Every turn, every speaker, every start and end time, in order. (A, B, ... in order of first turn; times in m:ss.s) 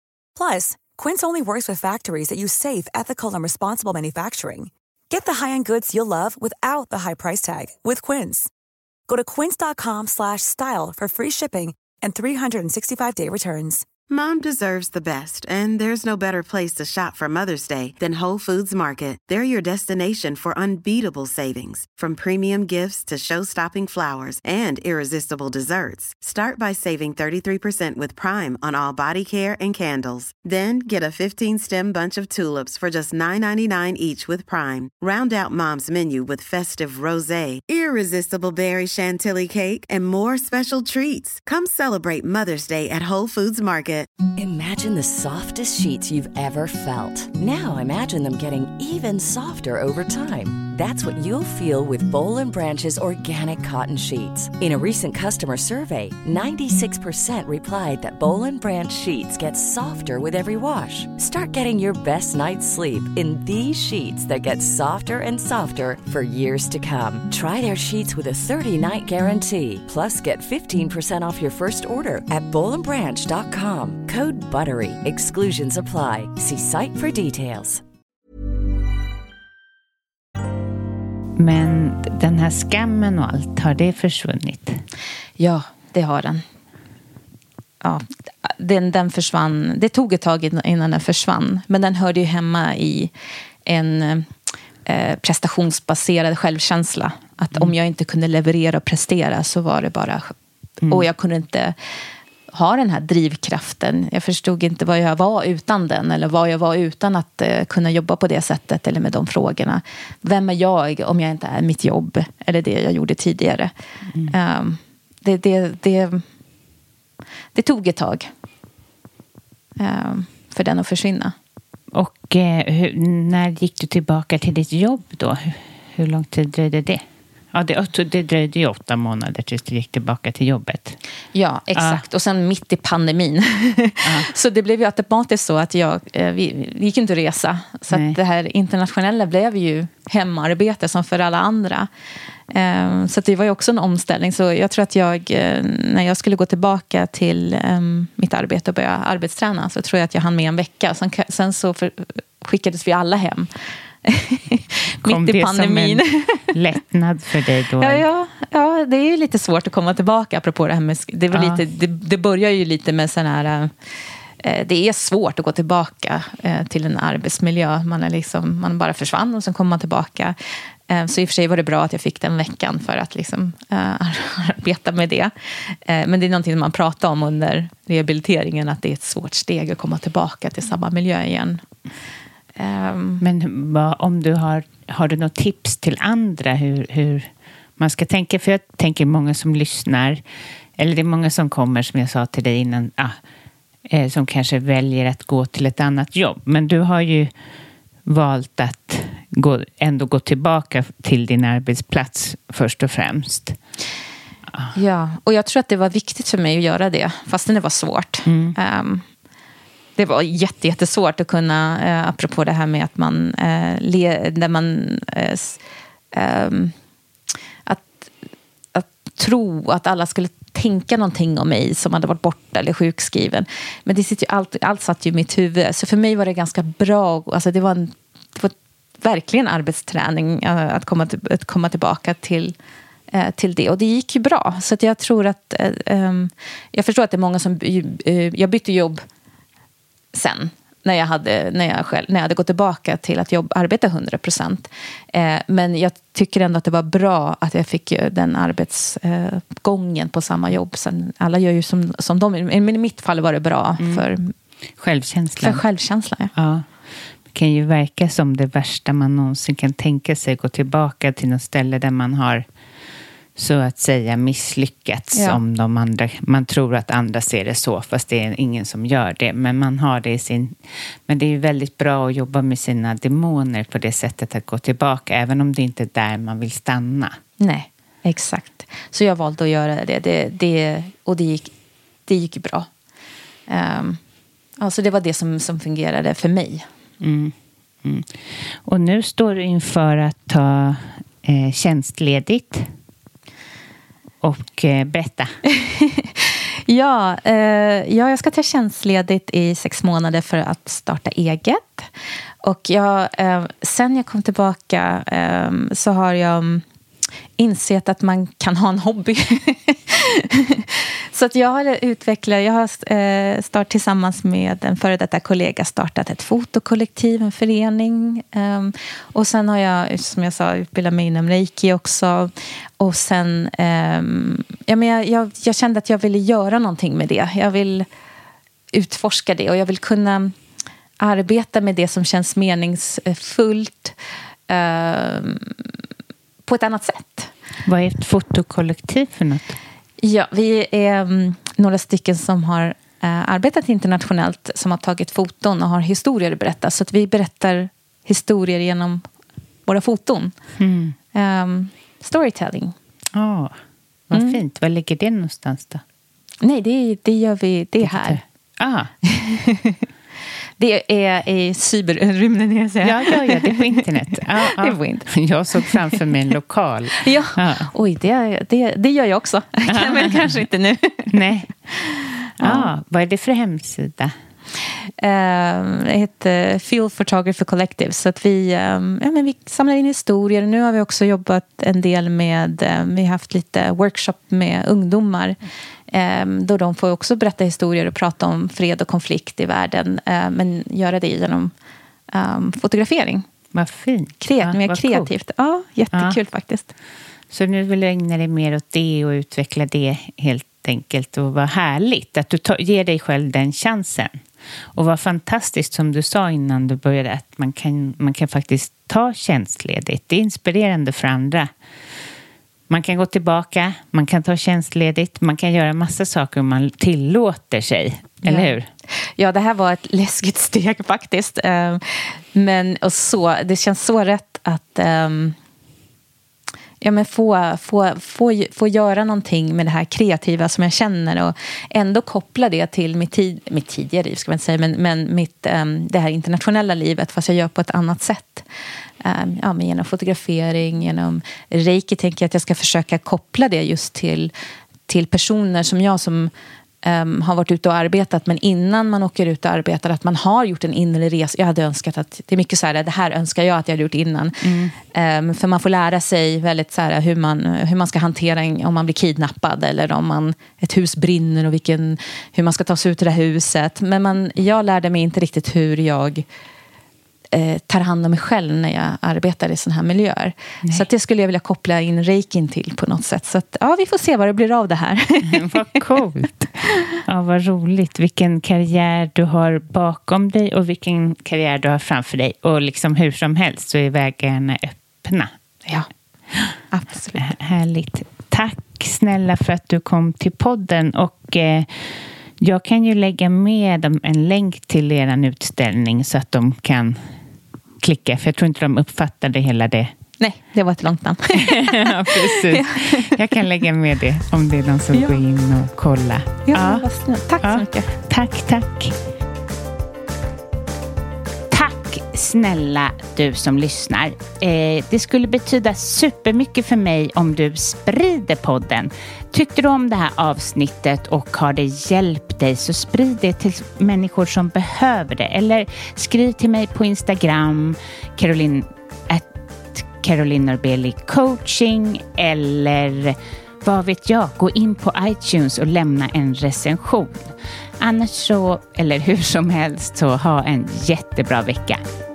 0:00.4-0:08.5 A
0:09.1-0:13.8 A
0:14.1-0:44.1 B
0:44.4-1:17.8 C
1:21.4-1:24.8 D
1:25.4-1:26.4 E
1:27.8-1:33.1 E
1:33.6-1:34.3 E
1:34.8-1:40.3 E
1:40.8-1:41.1 D
1:40.9-1:41.8 E
1:42.5-1:53.7 E
1:54.3-1:56.2 E
1:57.5-1:58.3 E
1:59.8-2:01.4 E
2:01.9-2:07.0 D
2:07.5-2:11.0 D
2:11.3-2:21.9 E
2:11.8-2:12.0 D
2:14.0-2:14.3 D
2:17.9-2:18.2 D
2:22.5-2:33.5 E
2:34.0-2:36.5 E
2:35.0-2:38.0 D
2:37.8-2:43.7 E
2:41.3-2:41.6 D
2:44.4-2:50.4 E
2:50.9-3:01.6 E
3:02.6-3:03.2 E
3:03.2-3:10.2 D
3:10.8-3:13.2 D
3:13.9-3:17.3 D
3:18.1-3:23.6 D
3:24.8-3:29.0 E
3:28.3-3:28.6 D
3:30.0-3:35.6 E
3:36.1-3:36.7 E
3:37.7-3:38.1 E
3:38.7-3:52.6 E
3:53.1-3:59.0 E
4:00.1-4:14.3 E
4:13.8-4:14.1 D
4:14.8-4:15.6 D
4:15.4-4:16.3 E
4:16.4-4:16.6 D
4:17.3-4:22.4 D
4:23.4-4:30.6 D
4:25.2-4:25.4 E
4:31.1-4:37.2 D
4:37.4-4:41.5 E
4:42.1-4:42.7 E
4:43.5-4:44.0 E
4:44.6-4:46.7 E
4:47.0-4:52.7 D
4:54.2-4:55.3 D
4:55.6-5:01.9 E
5:02.4-5:06.6 E
5:07.4-5:27.9 E
5:28.7-5:30.4 E
5:31.0-5:33.9 E
5:34.5-5:35.6 E
5:36.4-5:37.3 E
5:37.7-5:39.6 D
5:40.0-5:49.0 E
5:49.7-5:50.3 E
5:50.6-5:51.0 D
5:51.1-5:52.8 E
5:53.2-5:53.6 D
5:54.1-5:55.8 D
5:54.1-5:54.4 E
5:56.4-5:58.2 E
5:57.8-5:58.9 D
5:59.0-5:59.8 E
6:00.6-6:05.8 E
6:02.8-6:07.7 D
6:07.0-6:11.1 E
6:09.7-6:10.4 D
6:11.1-6:11.5 D
6:11.8-6:12.7 E
6:12.4-6:14.1 D
6:15.0-6:25.4 E
6:25.9-6:31.5 E
6:32.1-6:33.3 E
6:33.5-6:35.1 D
6:34.2-6:36.7 E
6:35.9-6:36.2 D
6:37.3-6:44.2 D
6:44.8-6:51.5 D
6:52.7-6:58.7 D
6:58.2-6:58.5 E
6:59.2-7:05.4 E
7:06.8-7:18.5 E
7:19.0-7:24.3 E
7:24.9-7:26.3 E
7:26.8-7:46.2 E
7:34.4-7:34.8 D
7:47.3-7:55.8 E
7:55.3-7:56.5 D
7:57.1-8:05.3 D
8:06.7-8:07.3 E
8:07.2-8:17.0 D
8:17.8-8:19.9 D
8:20.2-8:23.0 E
8:21.6-8:26.8 D
8:24.9-8:25.2 E
8:26.5-8:27.9 E
8:27.4-8:29.0 D
8:31.5-9:01.8 D